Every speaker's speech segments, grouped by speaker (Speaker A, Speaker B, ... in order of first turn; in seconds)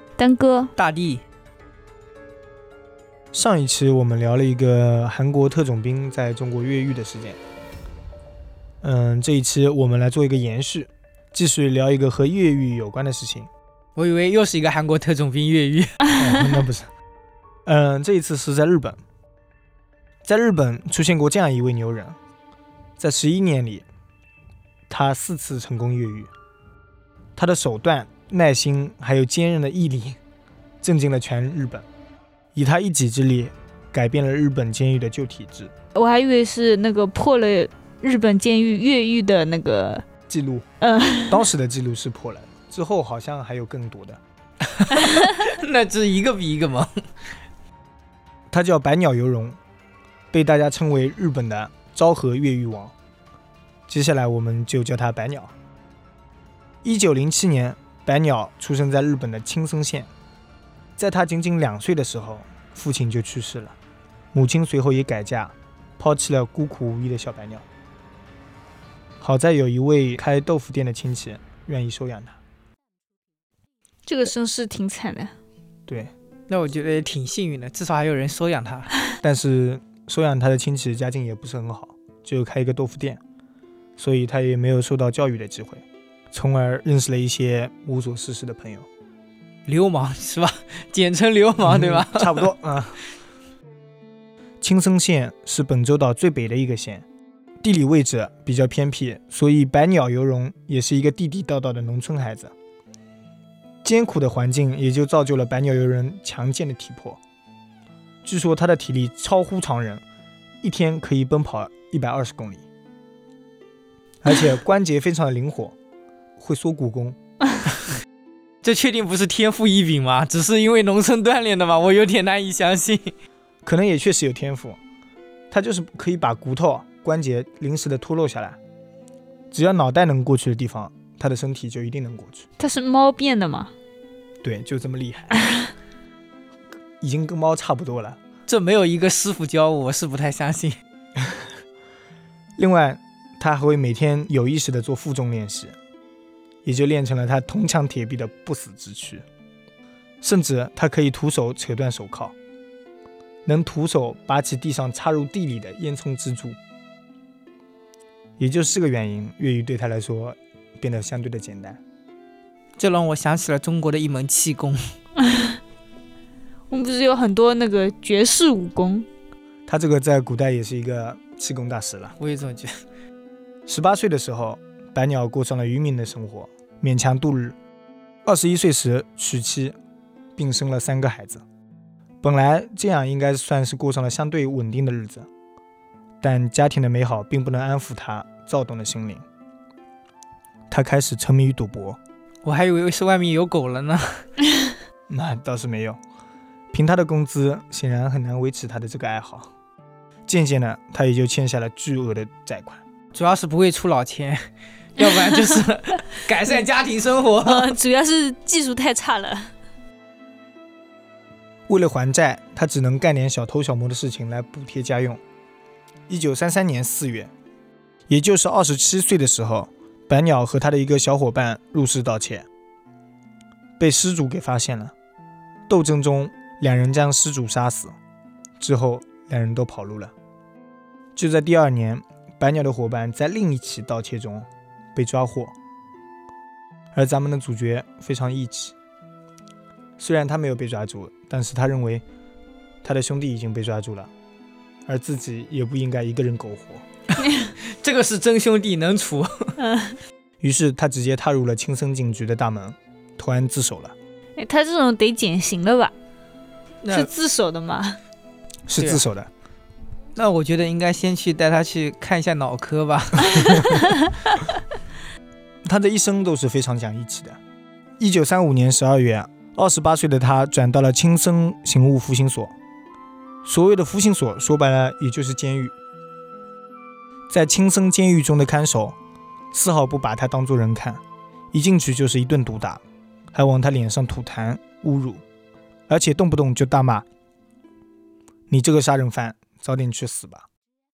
Speaker A: 0.2-0.7, 35.9-40.0, 40.8-41.5, 44.9-45.4, 74.0-75.3, 132.6-133.7, 165.2-165.6, 166.7-169.1, 205.0-205.6, 207.4-209.5, 247.2-247.5, 249.6-250.0, 254.4-255.9, 256.9-258.0, 263.5-264.1
Speaker B: 0.8-1.2, 13.9-16.0, 44.7-47.0, 76.5-78.9, 89.7-92.5, 118.6-123.1, 138.5-140.8, 162.8-164.9, 172.2-172.8, 192.4-194.2, 203.1-207.8, 247.7-249.6, 256.8-257.1, 258.8-259.0, 260.1-263.9
Speaker C: 3.3-7.4, 8.8-13.5, 16.1-16.9, 17.6-19.0, 20.2-22.2, 23.0-23.8, 24.9-26.3, 27.4-30.2, 30.8-31.8, 32.5-35.7, 40.3-40.7, 41.3-44.2, 48.5-49.6, 50.3-52.9, 53.9-55.5, 56.8-60.1, 61.0-63.8, 64.3-67.6, 69.2-72.4, 75.9-76.1, 79.2-83.2, 84.0-88.9, 91.6-93.0, 94.6-97.0, 97.6-102.5, 103.8-107.2, 108.2-110.0, 110.6-112.6, 114.2-115.8, 116.4-117.2, 123.6-124.8, 125.5-128.6, 129.5-132.4, 134.4-135.4, 137.0-138.2, 141.2-141.4, 142.6-145.7, 146.6-149.2, 150.2-152.3, 153.4-156.6, 158.4-161.8, 169.7-172.1, 173.7-177.6, 178.2-179.8, 180.3-181.4, 182.2-185.3, 186.2-189.2, 190.7-192.0, 195.1-196.0, 196.7-199.5, 200.3-202.8, 211.7-215.2, 216.1-217.3, 218.1-222.4, 223.8-224.9, 225.7-227.9, 228.6-230.1, 231.2-235.5, 236.9-238.7, 240.0-242.0, 242.8-244.1, 244.9-246.8, 250.4-253.9, 258.7-259.3, 265.6-267.4, 268.0-272.5, 273.4-275.7, 277.3-278.9, 279.5-281.0, 281.5-282.8, 283.3-285.2, 285.9-287.0, 288.5-290.4